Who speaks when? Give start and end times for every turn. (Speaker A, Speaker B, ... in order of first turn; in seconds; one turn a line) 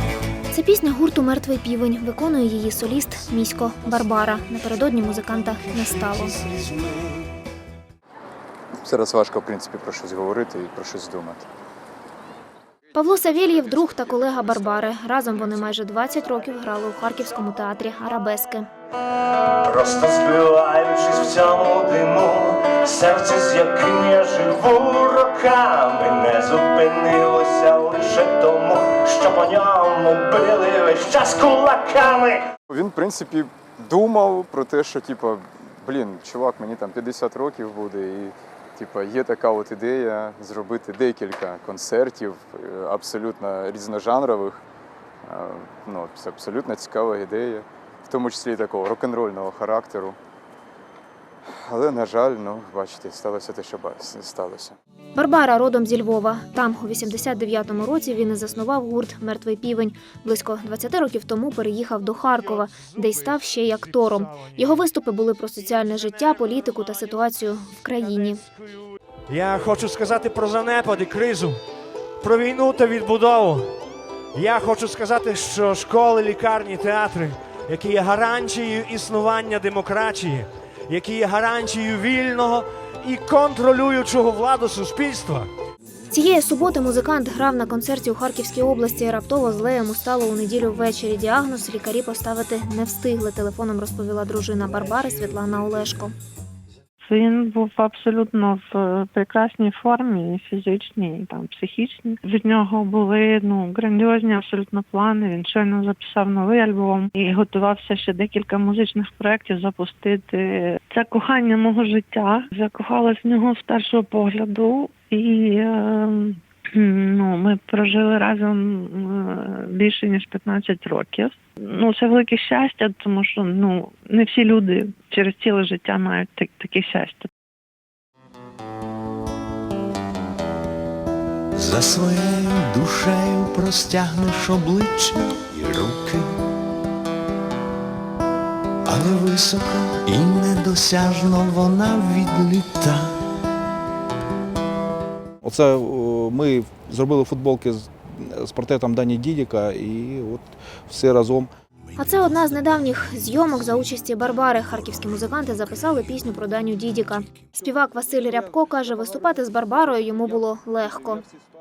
Speaker A: 0.5-6.3
Speaker B: 5.6-7.2
Speaker C: 8.8-11.5
Speaker A: 12.9-18.7
Speaker D: 19.6-32.5
Speaker C: 32.7-44.6
Speaker C: 45.2-50.2
Speaker C: 51.5-54.8
Speaker A: 55.1-68.4
Speaker E: 69.3-71.6
Speaker E: 72.2-73.7
Speaker E: 74.3-85.5
Speaker A: 86.1-96.1
Speaker F: 97.0-127.3
Speaker B: 131.6-136.3
Speaker B: 138.8-143.1
Speaker G: 145.4-151.5
Speaker A: 151.9-161.2